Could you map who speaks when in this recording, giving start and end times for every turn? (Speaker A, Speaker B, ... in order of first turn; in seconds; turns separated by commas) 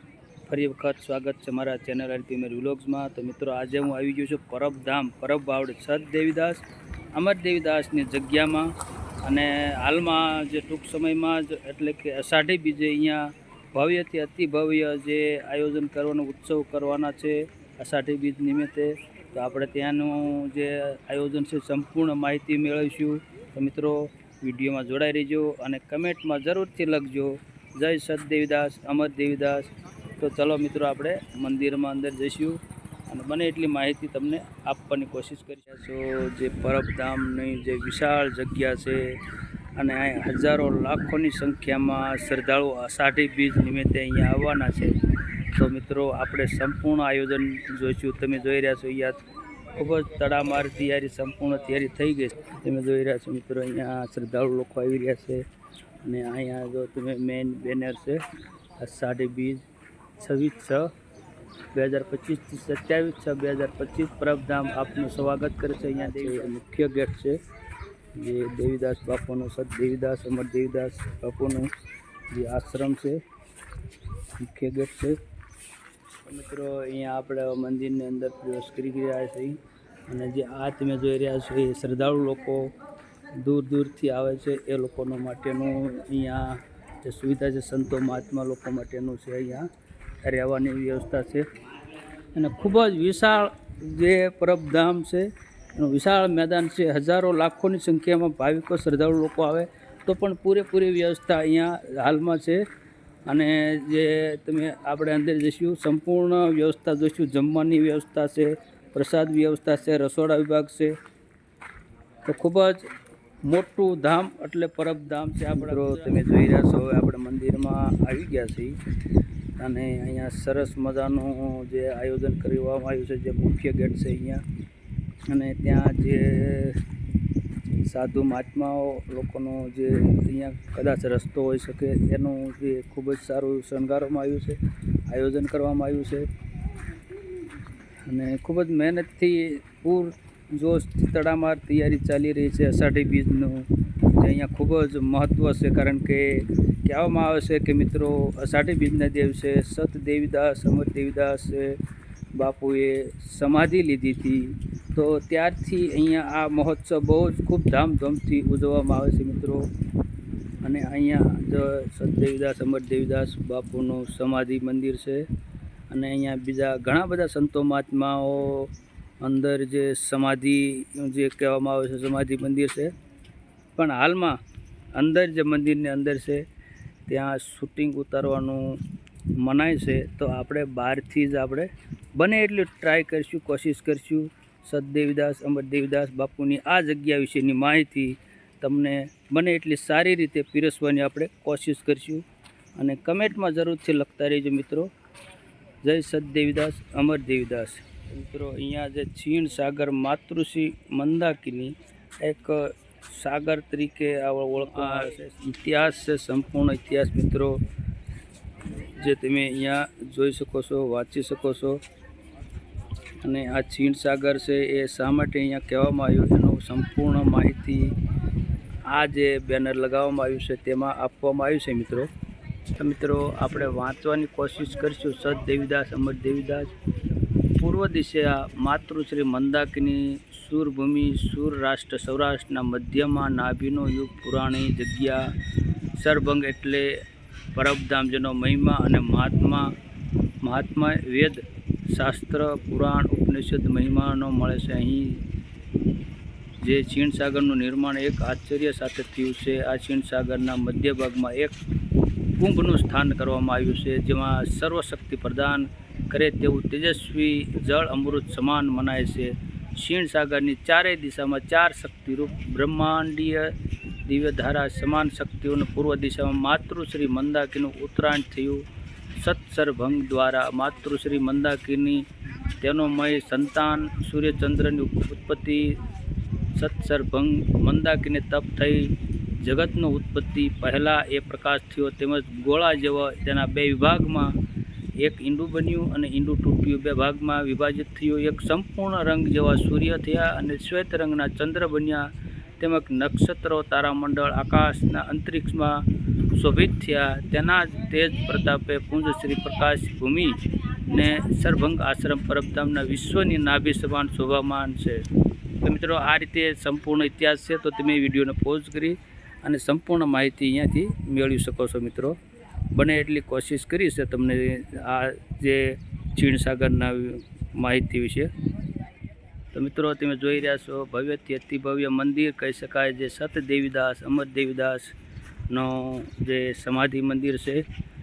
Speaker A: 0.5-39.2, Speaker A: 39.7-45.0, Speaker A: 45.5-49.2, Speaker A: 49.7-55.5, Speaker A: 56.0-58.2, Speaker A: 58.8-59.6, Speaker A: 60.2-60.9, Speaker A: 61.7-67.4, Speaker A: 68.1-71.7, Speaker A: 72.3-73.2, Speaker A: 74.4-75.2, Speaker A: 76.2-82.7, Speaker A: 83.3-89.7, Speaker A: 90.2-91.5, Speaker A: 92.3-102.7, Speaker A: 103.2-111.0, Speaker A: 112.2-112.9, Speaker A: 113.4-118.8, Speaker A: 119.6-124.4, Speaker A: 125.2-126.8, Speaker A: 127.8-136.3, Speaker A: 138.0-151.8, Speaker A: 152.3-159.7, Speaker A: 160.6-165.3, Speaker A: 165.9-172.9, Speaker A: 173.8-174.4, Speaker A: 174.9-176.4, Speaker A: 177.1-178.8, Speaker A: 179.3-192.2, Speaker A: 192.8-194.9, Speaker A: 195.8-207.6, Speaker A: 209.0-211.8, Speaker A: 213.2-218.0, Speaker A: 218.8-222.1, Speaker A: 222.7-226.7, Speaker A: 227.5-235.3, Speaker A: 235.9-237.0, Speaker A: 237.5-239.7, Speaker A: 240.4-245.2, Speaker A: 246.6-251.6, Speaker A: 252.3-275.8, Speaker A: 276.5-284.4, Speaker A: 285.0-305.1, Speaker A: 305.6-312.2, Speaker A: 312.7-318.3, Speaker A: 319.5-324.9, Speaker A: 325.5-327.6